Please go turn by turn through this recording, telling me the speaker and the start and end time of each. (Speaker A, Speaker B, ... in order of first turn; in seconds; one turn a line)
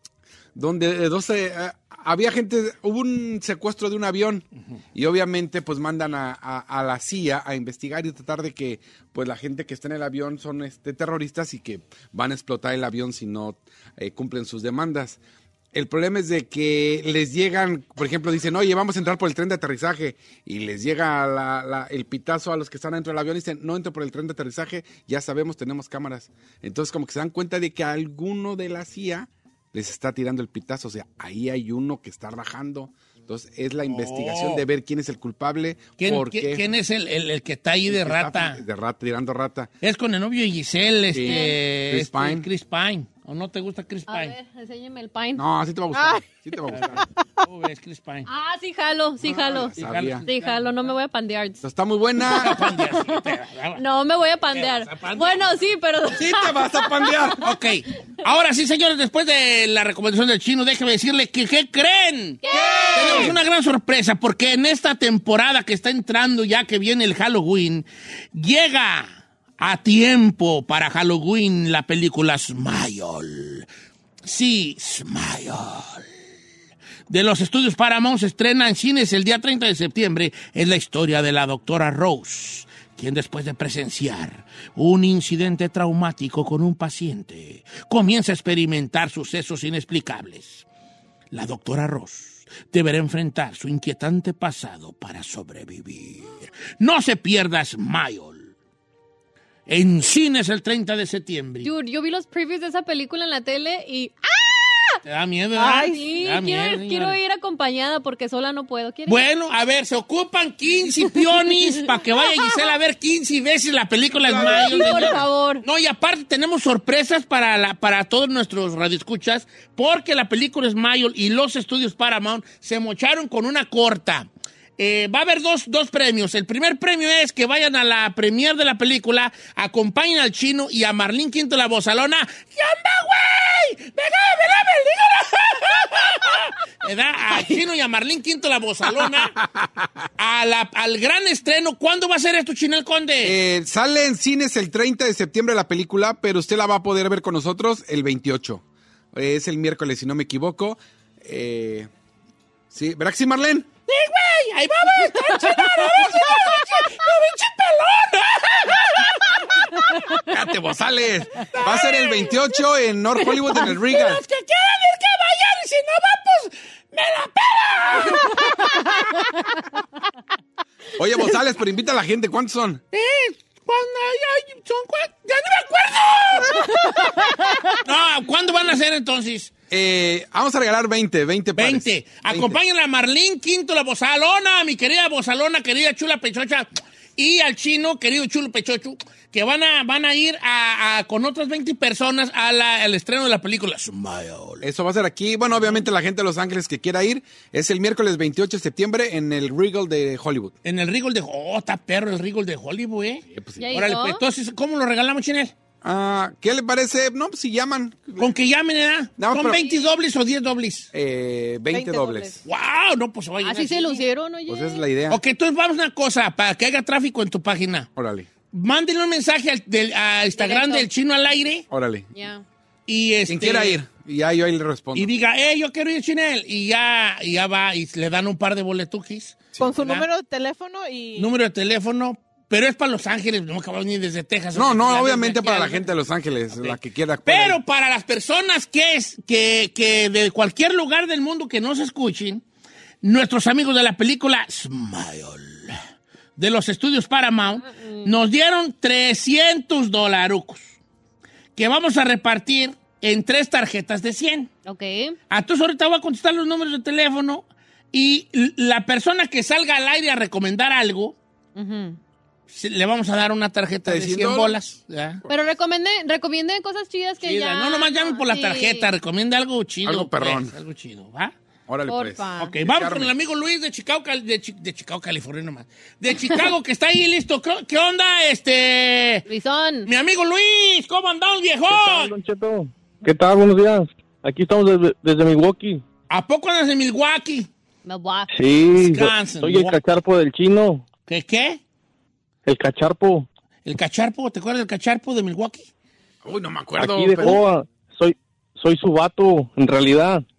Speaker A: 0.5-15.2
Speaker A: 15.7-36.6
Speaker B: 33.9-34.6
Speaker B: 36.0-38.6
Speaker A: 37.9-39.7
Speaker B: 39.8-44.3
Speaker A: 41.1-42.5
Speaker C: 41.2-41.6
Speaker C: 44.1-45.4
Speaker A: 45.4-47.0
Speaker D: 45.9-46.2
Speaker B: 46.7-48.3
Speaker C: 48.3-51.6
Speaker A: 49.2-50.2
Speaker B: 49.8-50.9
Speaker A: 51.6-52.6
Speaker C: 52.2-53.2
Speaker B: 52.3-53.8
Speaker C: 53.8-57.4
Speaker B: 54.5-55.5
Speaker A: 56.1-57.4
Speaker B: 57.4-73.7
Speaker C: 62.4-63.3
Speaker A: 62.5-63.4
Speaker B: 74.2-76.1
Speaker B: 77.1-90.6
Speaker B: 91.3-98.5
Speaker B: 99.7-101.7
Speaker C: 101.6-105.0
Speaker B: 105.0-107.2
Speaker D: 105.6-106.0
Speaker C: 105.9-109.2
Speaker B: 109.1-139.3
Speaker A: 114.2-115.2
Speaker C: 114.3-115.6
Speaker B: 140.2-143.4
Speaker A: 143.2-148.6
Speaker A: 149.1-151.9
Speaker A: 152.7-153.7
Speaker B: 153.9-160.2
Speaker A: 160.3-164.2
Speaker B: 161.4-162.3
Speaker B: 163.5-168.6
Speaker A: 171.0-172.8
Speaker B: 172.9-179.5
Speaker A: 179.7-182.6
Speaker B: 181.5-194.6
Speaker A: 194.6-200.5
Speaker B: 195.6-195.8
Speaker B: 200.6-205.5
Speaker A: 203.3-203.6
Speaker C: 203.6-204.2
Speaker A: 205.8-208.3
Speaker B: 208.2-210.9
Speaker A: 209.2-209.7
Speaker A: 210.9-212.4
Speaker D: 211.7-212.4
Speaker B: 212.4-214.0
Speaker C: 213.4-214.8
Speaker A: 214.5-215.2
Speaker B: 215.1-217.9
Speaker A: 217.9-218.3
Speaker B: 218.5-221.7
Speaker C: 220.3-220.9
Speaker A: 221.7-222.1
Speaker C: 222.1-222.4
Speaker B: 222.9-223.8
Speaker A: 223.3-225.1
Speaker B: 224.9-230.1
Speaker D: 229.6-231.3
Speaker B: 231.2-235.9
Speaker A: 234.5-237.6
Speaker B: 236.5-242.4
Speaker B: 243.0-245.8
Speaker B: 246.4-250.7
Speaker C: 247.6-248.1
Speaker B: 251.6-254.5
Speaker C: 254.6-255.2
Speaker B: 255.3-261.2
Speaker C: 261.5-262.0
Speaker B: 262.5-265.2
Speaker A: 263.9-264.5
Speaker C: 265.3-268.9
Speaker B: 267.2-271.3
Speaker A: 269.8-270.5
Speaker A: 271.7-273.1
Speaker C: 271.9-272.5
Speaker B: 272.4-279.3
Speaker C: 279.3-279.9
Speaker B: 279.8-282.1
Speaker E: 281.7-285.8
Speaker B: 286.1-287.5
Speaker C: 287.8-288.3
Speaker E: 288.3-290.9
Speaker B: 288.7-289.8
Speaker B: 291.1-291.6
Speaker E: 292.4-293.3
Speaker B: 293.6-295.7
Speaker A: 296.2-297.4
Speaker E: 296.8-300.2